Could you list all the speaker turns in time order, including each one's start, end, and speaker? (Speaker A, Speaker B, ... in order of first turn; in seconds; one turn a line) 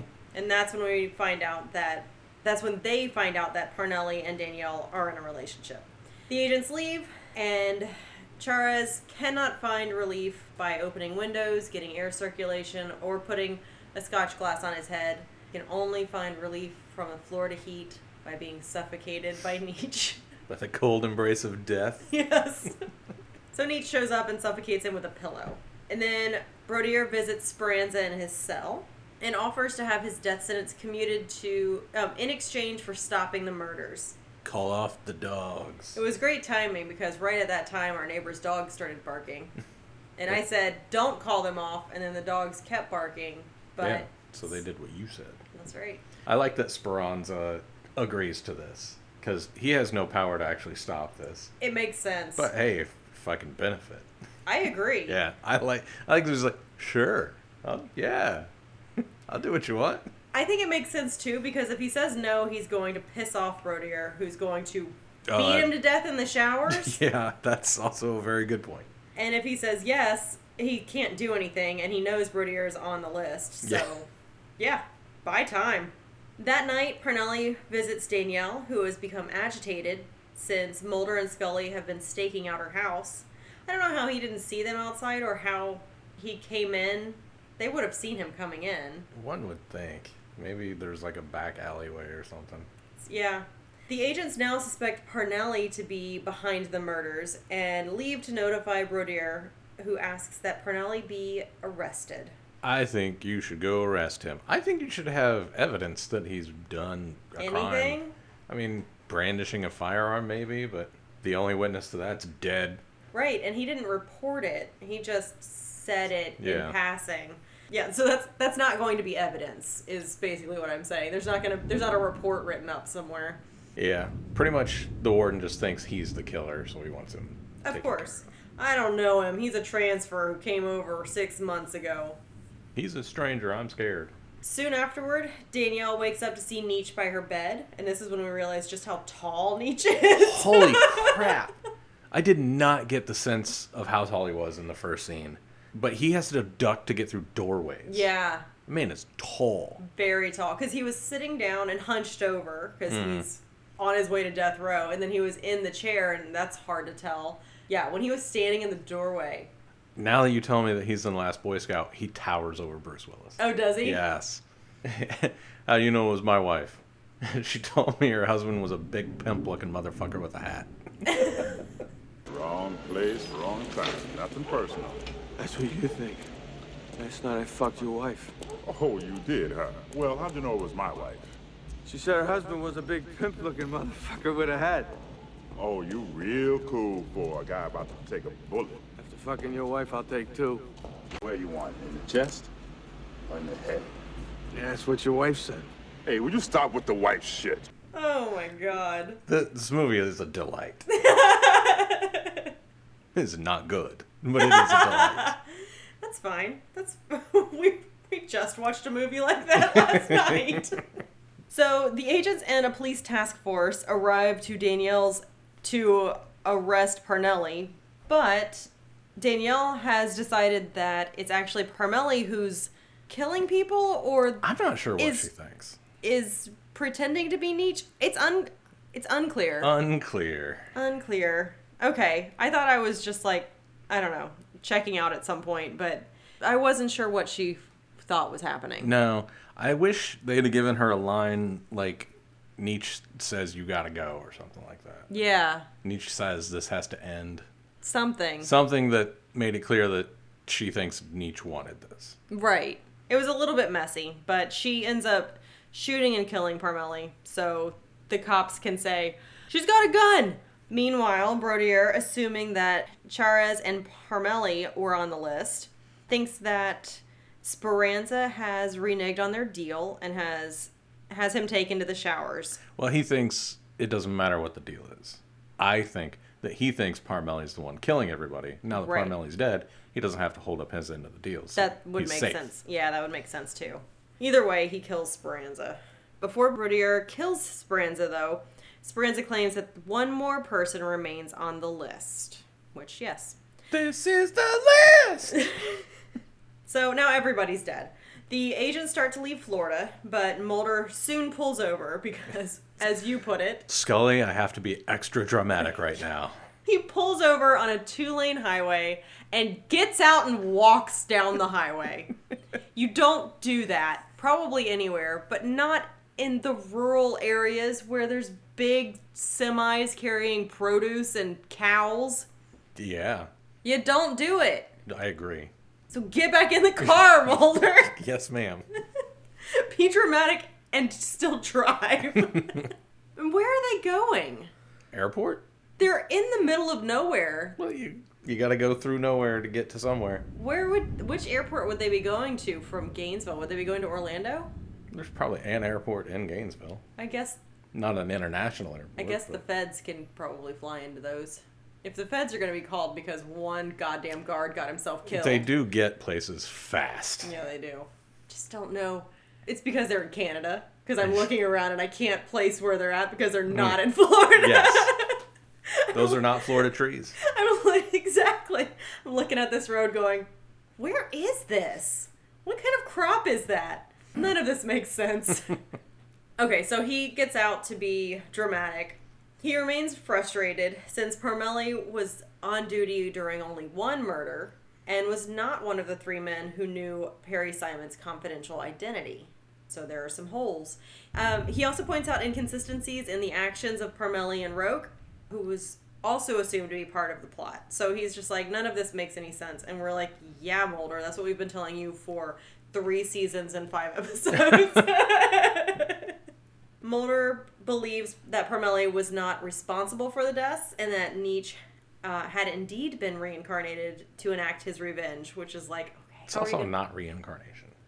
Speaker A: 0.3-20.2
Speaker B: 20.5-22.1
Speaker A: 22.1-22.9
Speaker A: 23.5-34.2
Speaker B: 34.4-36.0
Speaker A: 36.0-39.5
Speaker A: 40.2-44.6
Speaker B: 43.8-45.4
Speaker A: 45.5-46.0
Speaker B: 46.3-51.5
Speaker A: 51.6-52.5
Speaker B: 52.4-54.1
Speaker A: 54.5-55.2
Speaker B: 55.1-58.5
Speaker B: 59.3-60.1
Speaker A: 60.3-67.0
Speaker B: 65.3-65.7
Speaker B: 66.7-68.9
Speaker A: 69.2-74.1
Speaker B: 73.6-73.9
Speaker A: 74.6-89.1
Speaker B: 89.1-92.7
Speaker A: 93.0-102.3
Speaker B: 102.6-112.8
Speaker A: 107.4-108.1
Speaker A: 113.1-123.4
Speaker B: 116.4-116.8
Speaker B: 123.8-128.3
Speaker A: 127.6-132.2
Speaker B: 132.8-134.1
Speaker A: 134.4-141.4
Speaker B: 140.1-141.5
Speaker B: 142.1-148.1
Speaker A: 147.9-148.5
Speaker B: 148.7-149.8
Speaker A: 149.8-159.5
Speaker B: 152.9-153.3
Speaker B: 160.0-171.6
Speaker A: 163.4-164.0
Speaker A: 171.1-171.5
Speaker C: 172.3-175.0
Speaker D: 175.4-176.3
Speaker D: 177.0-178.3
Speaker C: 178.7-181.3
Speaker D: 181.8-184.9
Speaker C: 185.6-188.8
Speaker D: 189.0-190.7
Speaker C: 191.2-192.5
Speaker C: 193.3-193.9
Speaker D: 194.5-195.7
Speaker C: 196.1-197.7
Speaker A: 197.9-199.2
Speaker B: 199.3-200.9
Speaker A: 200.9-202.5
Speaker B: 203.2-205.4
Speaker A: 204.4-210.8
Speaker B: 209.8-210.4
Speaker A: 211.5-225.3
Speaker B: 224.4-225.8
Speaker A: 226.0-229.7
Speaker B: 229.6-230.7
Speaker A: 230.8-238.9
Speaker B: 238.8-245.1
Speaker A: 245.1-245.7
Speaker B: 245.8-247.4
Speaker A: 247.8-248.5
Speaker B: 248.4-252.2
Speaker A: 252.3-272.6
Speaker B: 272.8-282.4
Speaker A: 278.7-279.1
Speaker A: 281.6-293.4
Speaker B: 293.7-295.5
Speaker A: 295.4-295.8
Speaker A: 296.7-303.7
Speaker B: 303.7-306.3
Speaker A: 306.7-312.1
Speaker A: 312.7-322.3
Speaker B: 322.8-323.3
Speaker A: 323.6-324.8
Speaker B: 324.9-325.5
Speaker A: 325.9-327.9
Speaker B: 327.8-328.7
Speaker A: 329.5-334.5
Speaker B: 334.9-335.4
Speaker A: 335.8-337.6
Speaker B: 337.6-340.3
Speaker A: 340.4-344.5
Speaker B: 344.9-346.8
Speaker A: 347.0-347.4
Speaker B: 347.7-349.4
Speaker A: 349.0-355.5
Speaker B: 355.1-357.3
Speaker A: 357.2-366.6
Speaker B: 363.5-363.8
Speaker B: 364.3-364.9
Speaker B: 365.9-367.2
Speaker A: 367.2-375.6
Speaker A: 376.4-406.1
Speaker A: 406.8-416.7
Speaker B: 416.3-417.8